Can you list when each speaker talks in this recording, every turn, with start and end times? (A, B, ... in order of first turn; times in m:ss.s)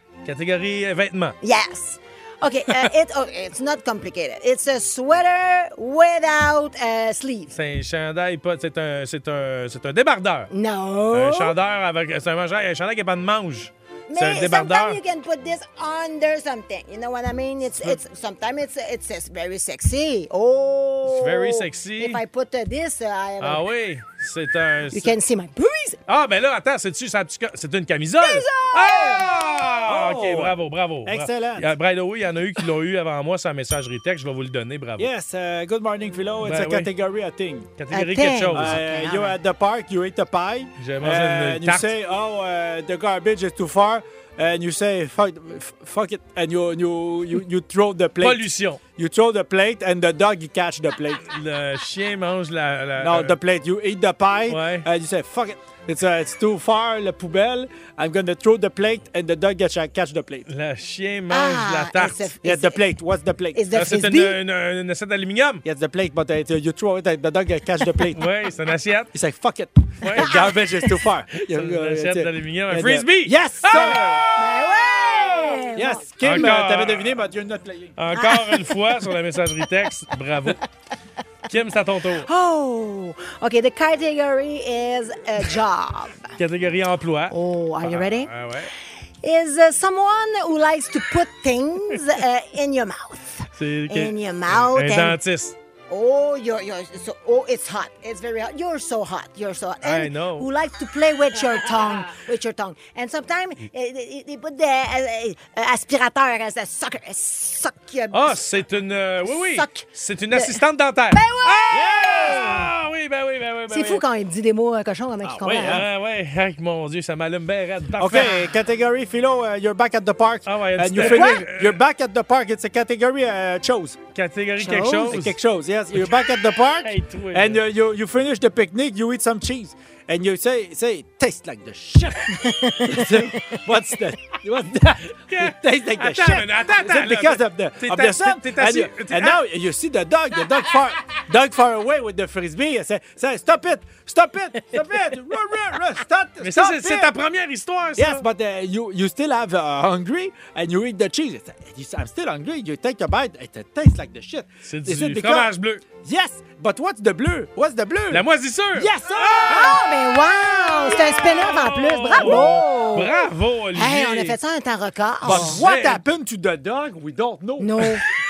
0:00.2-0:01.4 A
0:01.4-0:07.5 B
0:07.5-0:10.5 A
0:10.5-0:11.5 B
0:11.1-0:15.0 A
0:14.1-0:23.6 B
0:21.1-0:22.2 A
0:23.4-0:25.2 A
0:24.9-0:26.0 B
0:26.1-0:35.1 A
0:28.2-0:29.2 B
0:28.8-0:31.7 C
0:35.0-0:37.7 C
0:36.4-0:36.9 A
0:37.8-0:38.8 A
0:37.9-0:39.4 B
0:38.5-0:48.4 C
0:40.8-0:41.9 A
0:48.2-0:48.8 A
0:49.0-0:51.3 C
0:51.3-0:53.4 A
0:53.0-1:00.5 C
0:54.5-0:54.9 A
1:00.5-1:02.3 A
1:01.3-1:02.8 B
1:02.4-1:03.6 C
1:03.5-1:04.4 B
1:03.7-1:05.6 A
1:05.6-1:08.2 C
1:08.1-1:09.1 A
1:09.1-1:14.3 C
1:10.0-1:10.6 A
1:11.4-1:14.4 A
1:13.8-1:16.5 B
1:15.0-1:15.7 A
1:15.8-1:18.0 C
1:16.2-1:17.1 A
1:18.0-1:20.6 A
1:18.1-1:19.0 B
1:21.5-1:22.3 A
1:22.3-1:26.2 B
1:26.4-1:28.7 A
1:27.3-1:28.3 B
1:29.2-1:35.2 B
1:33.6-1:35.6 A
1:35.9-1:48.4 B
1:39.8-1:40.5 A
1:48.1-1:54.0 A
1:49.3-1:50.6 B
1:51.1-1:52.7 B
1:51.7-1:52.6 C
1:53.7-1:55.8 B
1:55.2-1:55.9 C
1:55.6-1:58.4 A
1:58.0-2:04.0 C
1:58.2-1:58.5 B
2:00.5-2:01.8 A
2:01.0-2:01.4 B
2:04.1-2:05.4 A
2:04.6-2:05.2 B
2:05.0-2:27.1 C
2:06.8-2:07.6 A
2:12.4-2:13.6 B
2:15.3-2:19.4 A
2:26.4-2:28.2 A
2:28.0-2:35.5 C
2:34.7-2:35.8 A
2:36.0-2:38.2 C
2:38.1-2:39.8 A
2:38.8-2:39.8 C
2:39.5-2:43.1 B
2:40.8-2:44.4 A
2:43.8-2:45.6 B
2:45.2-2:46.0 A
2:45.2-2:47.9 C
2:47.6-2:48.0 B